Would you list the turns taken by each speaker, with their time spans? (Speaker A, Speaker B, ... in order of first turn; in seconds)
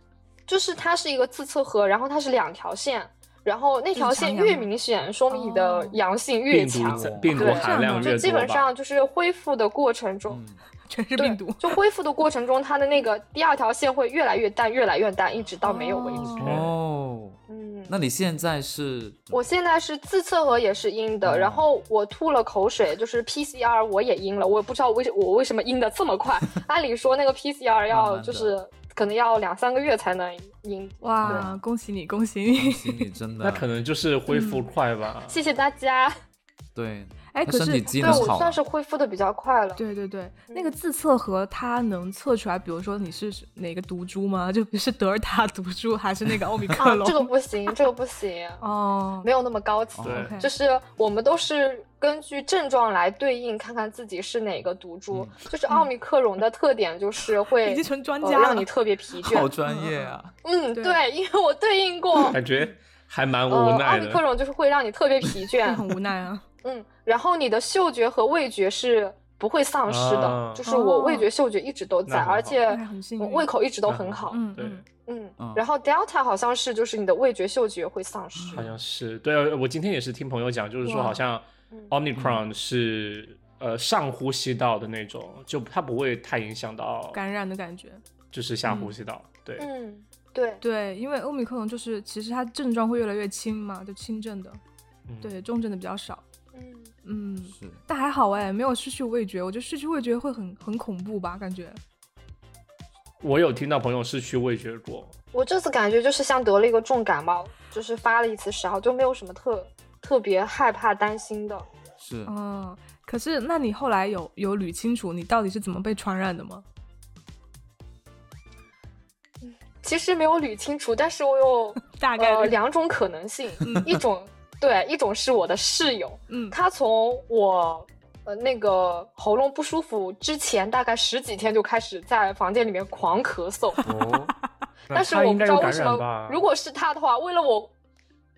Speaker A: 0.5-10.4, 11.2-16.4, 17.5-18.0, 19.3-31.4, 35.3-36.1, 38.0-39.8, 40.5-40.8, 46.8-48.6, 49.2-59.5, 60.4-62.4, 63.5-65.8, 66.6-74.4, 75.0-78.7, 80.8-81.1, 89.6-90.6, 96.5-96.9, 105.3-111.7, 119.4-133.8, 134.9-137.7
Speaker B: 3.9-4.7, 5.3-6.0, 7.3-8.3, 10.9-11.7, 15.6-16.6, 31.0-33.1, 34.3-34.7, 37.3-38.3, 39.8-47.3, 48.6-49.3, 50.1-50.5, 57.6-58.7, 59.6-60.2, 60.7-61.0, 65.7-66.4, 70.6-71.3, 72.7-73.5, 74.3-74.8, 87.1-88.0, 90.6-94.6, 95.2-96.2, 97.0-101.8, 112.3-116.6, 121.8-122.5, 123.6-124.0, 126.3-126.5
Speaker C: 6.5-8.7, 16.2-16.7, 33.4-35.4, 50.0-50.3, 62.3-64.2, 69.9-70.6, 72.0-72.6, 73.8-74.8, 78.5-87.2, 88.3-89.7, 95.1-95.4, 103.2-105.1, 133.8-134.3, 134.9-136.4
Speaker D: 6.8-7.3, 10.3-10.6, 16.4-19.4, 21.2-21.6, 27.9-28.5, 31.2-31.6, 32.5-33.6, 36.7-38.6, 50.0-50.3, 59.2-60.3, 75.4-75.6, 78.3-78.7, 82.1-82.4, 97.5-97.8, 112.0-112.3